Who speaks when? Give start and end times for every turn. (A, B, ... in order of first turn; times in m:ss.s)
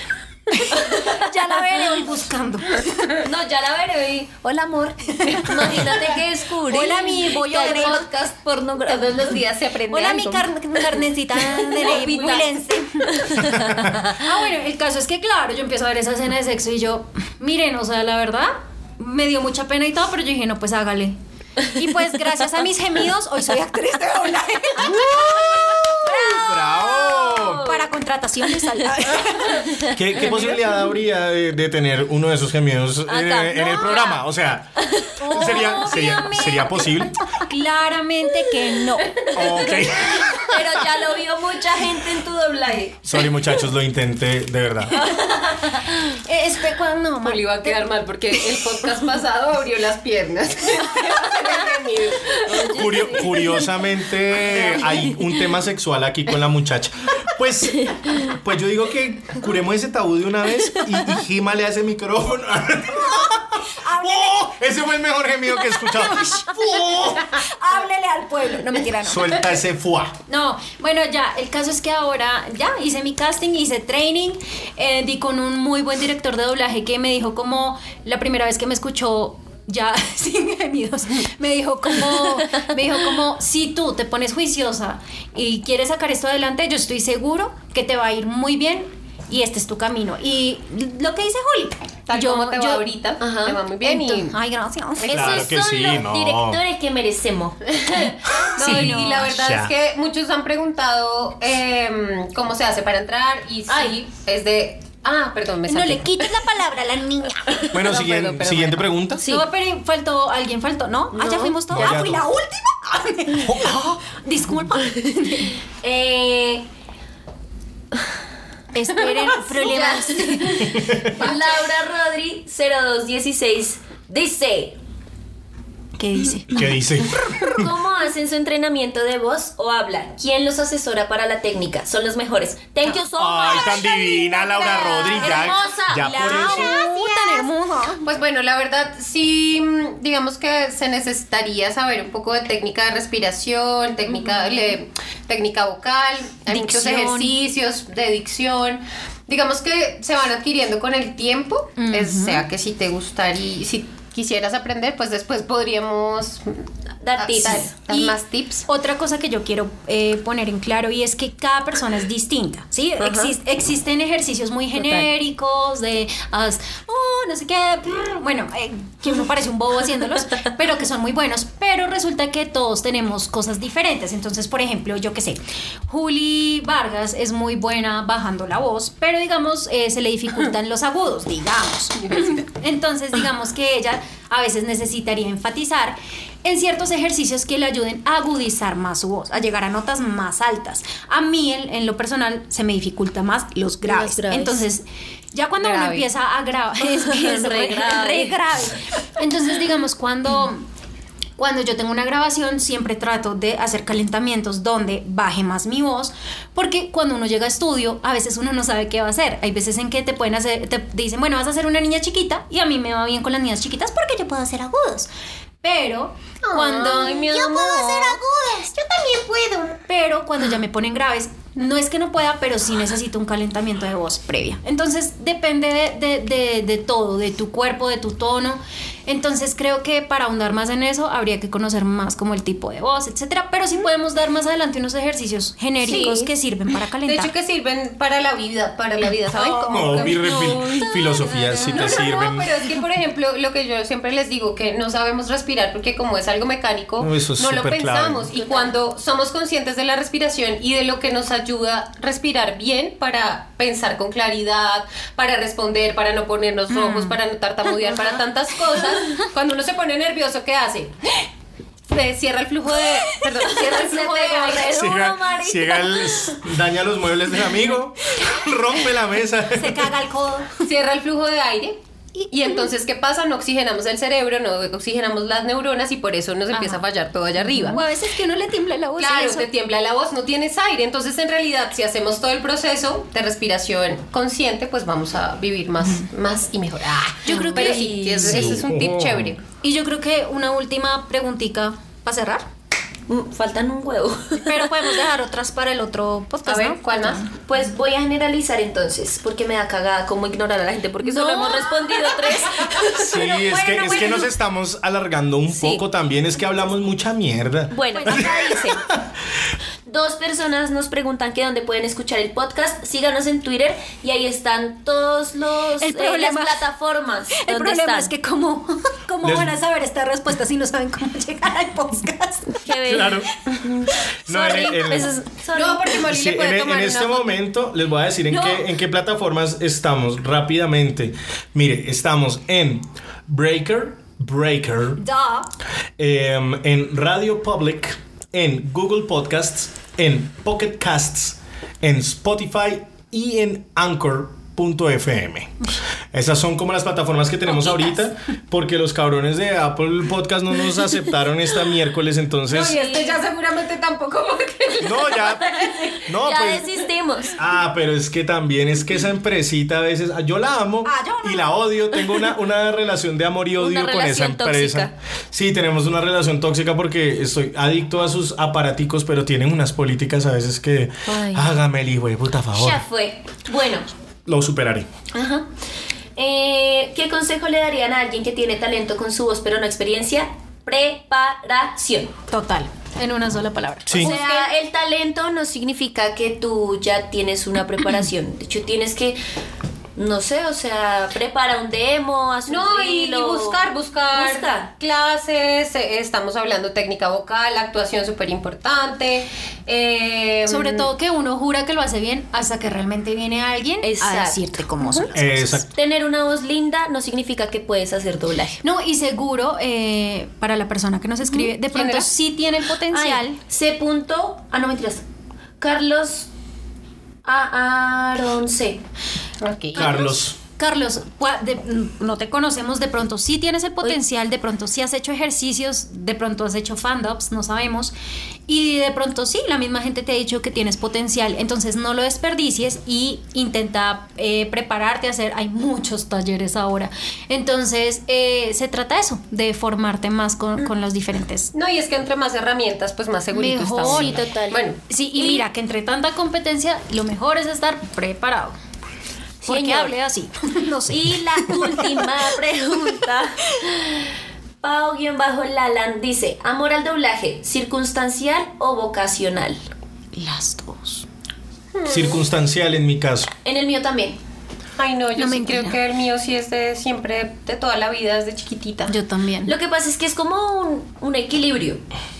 0:00.5-0:03.2 A
0:00.8-0:01.3 B
0:03.2-0:09.3 B
0:05.2-0:06.1 A
0:06.6-0:08.0 A
0:07.6-0:08.0 C
0:08.8-0:11.0 C
0:09.9-0:26.6 A
0:11.6-0:12.4 C
0:11.7-0:12.5 B
0:13.0-0:14.1 B
0:24.8-0:27.7 D
0:24.9-0:27.8 B
0:27.5-0:30.6 A
0:29.8-0:37.2 D
0:33.1-0:34.2 B
0:34.8-0:35.4 B
0:35.2-0:39.3 A
0:39.3-0:41.0 D
0:39.6-0:43.5 B
0:43.0-0:45.0 D
0:45.0-0:45.8 B
0:45.0-0:47.8 A
0:47.2-0:53.4 C
0:52.4-0:53.6 B
0:52.6-1:07.3 D
1:03.0-1:04.5 A
1:05.5-1:09.5 A
1:09.0-1:10.2 D
1:10.3-1:32.8 A
1:32.1-1:34.4 C
1:33.2-1:33.6 B
1:33.8-1:35.3 A
1:35.0-1:35.5 C
1:35.1-1:38.1 B
1:35.1-1:36.6 D
1:37.8-1:46.3 C
1:38.3-1:39.7 D
1:38.6-1:39.3 A
1:43.7-1:43.9 B
1:45.7-1:47.8 A
1:47.6-1:48.9 C
1:47.7-1:49.2 D
1:49.2-1:49.4 B
1:49.2-1:55.6 A
1:51.1-1:51.6 B
1:51.7-1:52.2 D
1:53.3-1:54.0 D
1:55.8-1:56.6 B
1:58.7-2:01.3 A
1:59.4-2:04.8 B
2:00.6-2:01.1 D
2:01.2-2:01.7 C
2:06.0-2:06.8 A
2:06.5-2:07.7 D
2:07.4-2:17.0 B
2:13.1-2:16.7 D
2:15.1-2:18.0 A
2:16.6-2:17.4 C
2:18.0-2:36.6 C
2:26.5-2:27.3 A
2:31.8-2:32.4 A
2:37.0-2:37.7 B
2:37.2-2:38.6 C
2:37.9-2:38.2 A
2:38.7-3:20.6 A
2:43.0-2:43.3 B
2:44.8-2:45.1 B
3:02.0-3:02.4 C
3:13.8-3:14.6 B
3:15.6-3:16.1 C
3:17.0-3:18.4 B
3:21.4-3:35.1 A
3:35.6-3:57.3 A
3:36.5-3:37.3 C
3:36.6-3:38.2 B
3:55.8-3:56.3 C
3:55.8-3:56.2 B
3:57.0-4:21.2 C
3:59.3-4:00.5 A
3:59.7-4:02.5 D
4:00.3-4:01.6 B
4:01.5-4:02.0 A
4:07.0-4:08.3 D
4:16.7-4:17.2 A
4:21.9-4:24.7 C
4:22.8-4:24.7 A
4:23.6-4:26.3 B
4:24.6-4:29.9 D
4:29.5-4:30.5 A
4:30.6-4:31.8 C
4:32.1-4:32.7 A
4:32.3-4:37.8 C
4:36.5-4:36.8 A
4:37.5-4:39.5 A
4:39.0-4:49.4 C
4:47.2-4:48.3 A
4:47.3-4:48.6 B
4:48.2-4:49.4 D
4:49.6-4:52.5 A
4:53.1-4:54.7 B
4:54.4-4:57.3 A
4:56.4-4:57.3 C
4:57.4-5:03.2 B
5:01.1-5:01.6 A
5:01.2-5:01.8 C
5:03.0-5:09.1 D
5:03.1-5:04.3 A
5:05.5-5:05.8 B
5:07.7-5:08.8 B
5:07.9-5:08.8 A
5:09.8-5:18.1 B
5:15.8-5:16.7 A
5:17.3-5:22.7 A
5:19.2-5:19.5 D
5:22.5-5:26.0 B
5:22.8-5:23.3 D
5:24.3-5:25.1 A
5:24.3-5:25.1 D
5:25.5-5:27.3 C
5:26.0-5:35.0 D
5:28.3-5:28.6 A
5:35.0-5:35.5 A
5:36.0-5:45.6 D
5:46.1-5:52.8 D
5:52.5-5:56.1 C
5:52.7-5:53.2 B
5:54.8-5:56.7 D
5:56.1-5:57.4 B
5:57.4-6:12.8 D
6:00.8-6:01.5 A
6:03.6-6:04.9 B
6:11.1-6:11.5 B
6:12.5-6:13.9 B
6:14.2-6:14.9 D
6:15.1-6:15.4 B
6:16.2-6:22.1 B
6:22.3-6:24.3 A
6:23.8-6:24.1 D
6:24.0-6:29.2 B
6:24.0-6:24.5 C
6:30.0-6:34.7 B
6:32.5-6:40.9 C
6:40.5-6:45.6 A
6:43.8-6:44.4 B
6:44.8-6:45.1 C
6:45.1-6:45.7 D
6:45.7-6:48.6 B
6:48.6-6:53.4 A
6:51.7-6:52.2 C
6:52.9-6:55.0 B
6:55.6-6:56.3 B
6:57.2-6:58.8 B
6:59.4-7:00.0 C
6:59.7-7:00.4 D
6:59.7-7:07.9 A
7:08.5-7:21.5 A
7:21.5-7:24.8 C
7:23.3-7:24.3 A
7:23.8-7:24.6 B
7:24.9-7:28.6 A
7:25.1-7:25.4 B
7:29.4-7:32.3 A
7:29.4-7:30.0 B
7:30.9-7:39.6 B
7:40.2-7:41.1 A
7:41.7-7:42.2 C
7:41.8-7:43.3 D
7:43.4-7:44.2 B
7:44.8-7:49.0 C
7:45.2-7:45.8 A
7:48.9-7:49.5 A
7:49.4-7:51.8 B